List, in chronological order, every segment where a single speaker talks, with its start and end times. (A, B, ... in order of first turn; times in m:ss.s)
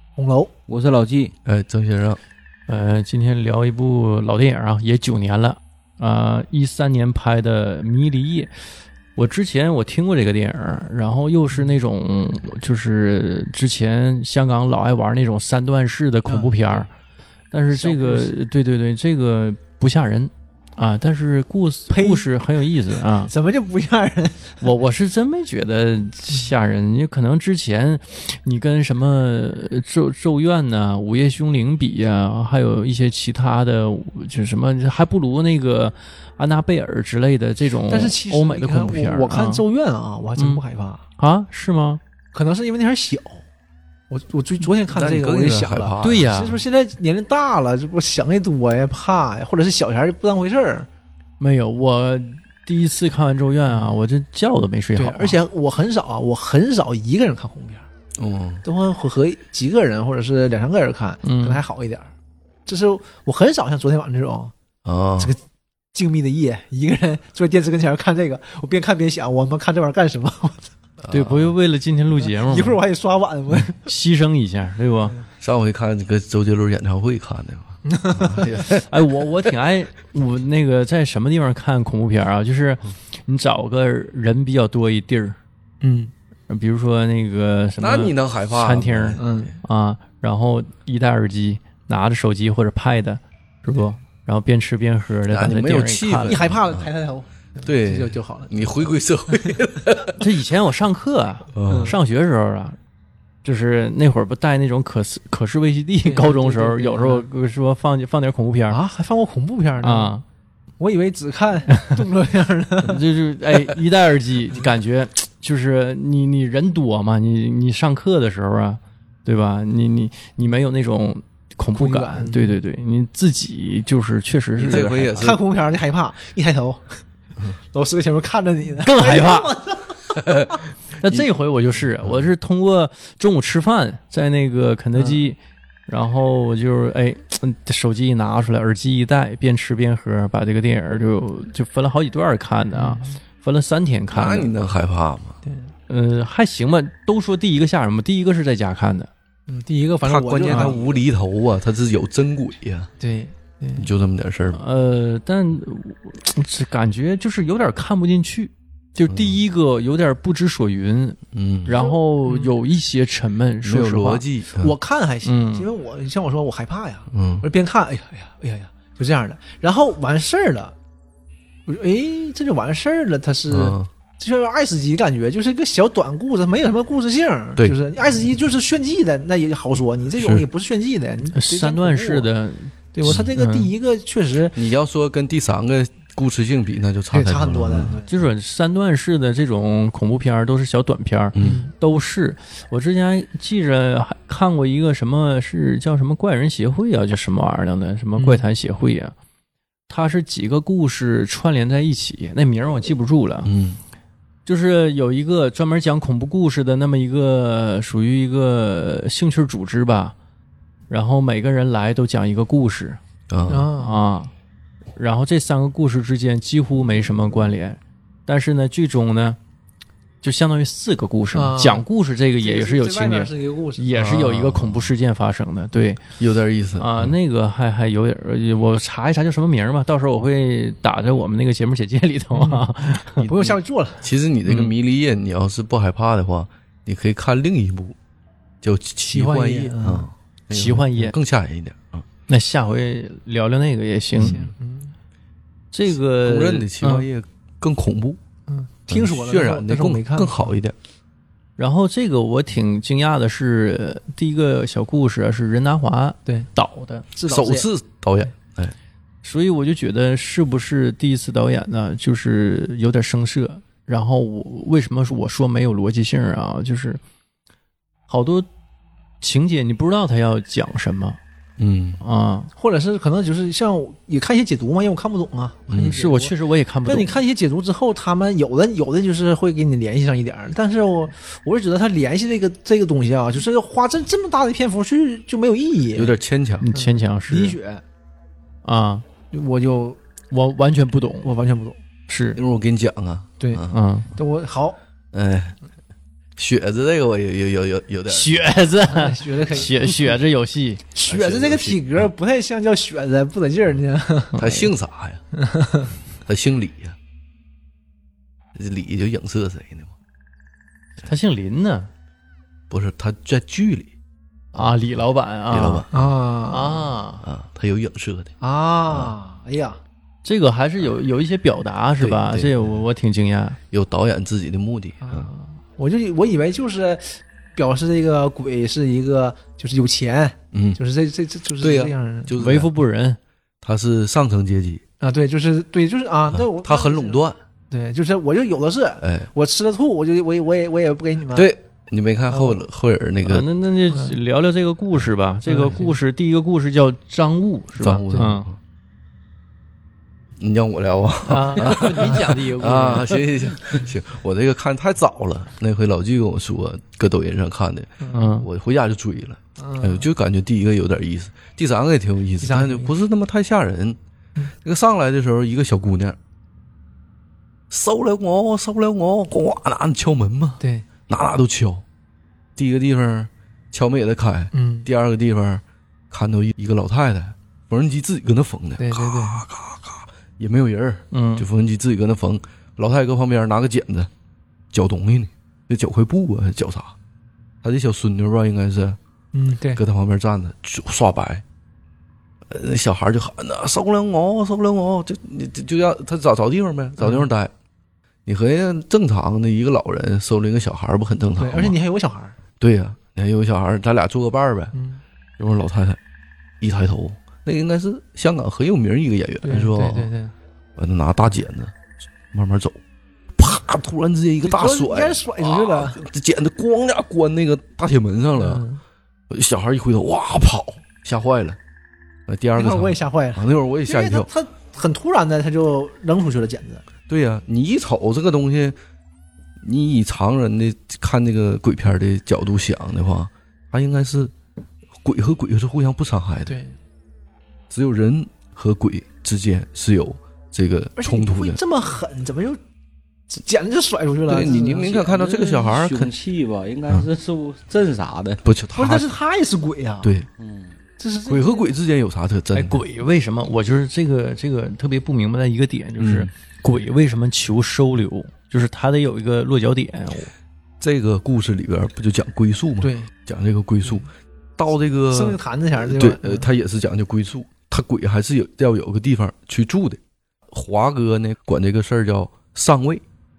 0:00.2-0:00.5 A
0:00.7-0:01.3 B
0:01.4-0:02.2 C
0:02.7-0:08.5 D
0:09.2-0:16.9 D
0:16.3-0:16.8 A
0:17.5-0:23.3 D
0:17.7-0:18.3 A
0:21.9-0:22.2 A
0:23.3-0:24.6 A
0:24.6-0:39.6 D
0:37.9-0:41.0 A
0:40.4-0:40.6 D
0:41.2-0:42.0 D
0:42.3-0:43.4 A
0:44.1-0:50.9 A
0:44.9-0:46.3 C
0:46.0-0:46.6 D
0:51.4-0:55.4 D
0:53.7-0:54.0 A
0:55.0-0:57.9 A
0:58.2-0:58.6 C
0:58.6-1:02.1 A
1:01.2-1:01.6 D
1:02.7-1:04.5 A
1:04.8-1:05.3 C
1:05.9-1:10.7 A
1:11.0-1:11.6 C
1:11.1-1:12.8 D
1:12.3-1:13.8 A
1:13.8-1:15.1 D
1:15.4-1:19.0 C
1:17.9-1:18.5 A
1:18.6-1:25.4 D
1:25.8-1:26.1 A
1:26.5-1:36.4 D
1:27.8-1:29.5 C
1:29.2-1:29.6 A
1:35.3-1:36.9 C
1:36.3-1:38.6 A
1:37.6-1:40.2 C
1:40.2-1:42.8 D
1:41.5-1:42.0 C
1:41.7-1:42.0 A
1:43.4-1:48.8 D
1:46.0-1:47.3 A
1:48.7-1:50.1 A
1:49.8-1:50.2 D
1:50.8-1:53.1 A
1:52.8-2:05.4 D
2:01.8-2:02.6 A
2:04.6-2:05.4 C
2:04.7-2:07.0 A
2:07.7-2:10.2 A
2:08.8-2:09.5 D
2:10.1-2:11.3 C
2:11.0-2:24.5 D
2:15.0-2:15.2 A
2:22.7-2:23.2 A
2:24.1-2:25.4 C
2:25.4-2:25.7 A
2:25.9-2:29.1 D
2:29.5-2:31.0 A
2:30.0-2:32.9 C
2:30.5-2:30.7 D
2:33.0-2:33.9 A
2:33.8-2:34.6 C
2:34.5-2:44.2 D
2:39.1-2:39.4 C
2:41.3-2:41.8 C
2:41.8-2:42.6 A
2:43.6-2:44.8 C
2:44.6-2:50.7 A
2:45.2-2:45.7 D
2:47.1-2:47.5 C
2:51.7-3:02.3 A
2:53.5-2:53.9 C
3:00.2-3:00.5 C
3:01.3-3:03.7 D
3:02.9-3:04.6 A
3:03.0-3:03.3 C
3:04.5-3:08.0 C
3:07.1-3:08.2 A
3:08.0-3:19.1 D
3:11.3-3:11.7 C
3:11.4-3:11.7 A
3:18.2-3:18.4 A
3:19.9-3:23.5 D
3:23.4-3:23.8 C
3:24.4-3:30.2 D
3:30.9-3:33.0 D
3:33.3-3:33.7 C
3:33.5-3:34.0 A
3:33.8-3:34.3 D
3:35.0-3:39.4 D
3:40.2-3:46.0 D
3:41.3-3:41.9 A
3:42.4-3:43.9 A
3:43.9-3:44.9 C
3:46.2-3:47.2 C
3:46.8-3:53.3 D
3:52.3-3:52.7 A
3:53.2-3:54.0 A
3:53.3-3:58.0 C
3:54.5-3:54.7 D
3:58.6-4:02.0 C
3:59.0-4:00.1 A
4:00.5-4:01.2 D
4:02.3-4:04.5 D
4:04.2-4:04.9 A
4:05.7-4:07.1 D
4:06.2-4:08.2 C
4:08.5-4:10.6 A
4:08.9-4:10.8 C
4:11.6-4:17.1 D
4:17.1-4:17.7 A
4:17.2-4:18.7 C
4:19.2-4:27.0 D
4:28.1-4:28.5 D
4:29.2-4:31.2 D
4:31.6-4:32.0 C
4:32.0-4:32.5 D
4:32.6-4:36.3 A
4:35.7-4:36.0 C
4:35.8-4:37.2 D
4:36.8-4:46.2 A
4:45.9-4:46.7 C
4:46.6-4:47.6 D
4:46.7-4:47.8 A
4:48.6-4:49.0 D
4:49.3-4:50.0 A
4:50.3-4:51.3 D
4:51.2-4:51.8 A
4:52.1-4:52.4 D
4:52.4-4:53.8 C
4:53.4-4:54.8 A
4:53.7-4:54.1 D
4:55.1-4:55.6 C
4:56.4-4:58.6 C
4:58.1-5:00.8 D
4:58.9-4:59.8 A
5:00.9-5:04.4 A
5:01.0-5:02.1 C
5:04.3-5:04.7 D
5:04.4-5:05.2 C
5:05.4-5:05.9 A
5:06.2-5:07.0 C
5:08.6-5:09.9 C
5:11.0-5:11.9 D
5:12.7-5:13.9 C
5:14.5-5:15.9 D
5:15.5-5:15.9 C
5:15.9-5:16.9 A
5:16.5-5:17.2 D
5:17.2-5:18.3 C
5:18.4-5:19.8 A
5:20.2-5:23.6 D
5:22.0-5:22.8 C
5:23.7-5:25.3 C
5:25.0-5:32.4 A
5:30.5-5:30.8 C
5:31.6-5:32.7 C
5:32.4-5:33.2 D
5:33.6-5:34.8 C
5:35.0-5:41.5 A
5:36.3-5:37.4 C
5:39.0-5:39.3 C
5:41.3-5:43.5 C
5:42.3-5:42.6 A
5:43.2-5:48.5 D
5:45.5-5:46.0 A
5:47.8-5:48.6 C
5:50.4-6:04.0 C
5:51.2-5:53.2 D
5:58.1-5:58.5 D
5:59.6-6:00.1 A
6:02.4-6:02.9 A
6:04.6-6:06.2 C
6:07.7-6:11.8 C
6:10.6-6:10.8 A
6:12.6-6:24.1 C
6:14.5-6:14.9 A
6:18.8-6:19.4 A
6:21.1-6:21.5 D
6:24.7-6:26.9 C
6:27.6-6:29.0 C
6:29.3-6:29.8 A
6:29.8-6:31.4 C
6:32.5-6:37.5 C
6:37.0-6:37.3 A
6:38.2-6:41.8 C
6:41.4-6:42.4 A
6:42.6-6:44.8 C
6:44.7-6:45.0 A
6:45.4-6:46.0 C
6:46.6-6:50.1 C
6:49.4-6:50.3 A
6:50.8-6:51.7 C
6:52.3-6:52.8 C
6:53.4-6:58.6 C
6:54.4-6:56.0 A
6:58.4-6:58.8 A
6:59.3-7:01.6 C
7:02.3-7:04.3 C
7:02.6-7:06.8 A
7:07.1-7:08.8 C
7:09.6-7:14.3 C
7:15.0-7:16.6 C
7:16.5-7:16.8 A
7:17.7-7:21.6 C
7:21.0-7:22.6 A
7:23.3-7:25.0 A
7:24.3-7:26.1 C
7:24.3-7:28.4 B
7:28.4-7:29.1 C
7:28.7-7:30.2 A
7:30.0-7:30.3 C
7:30.4-7:30.8 B
7:31.0-7:31.7 A
7:31.2-7:32.8 C
7:32.5-7:40.3 D
7:36.0-7:36.3 C
7:40.8-7:50.0 C
7:42.8-7:43.1 A
7:45.1-7:46.4 A
7:50.5-7:53.0 C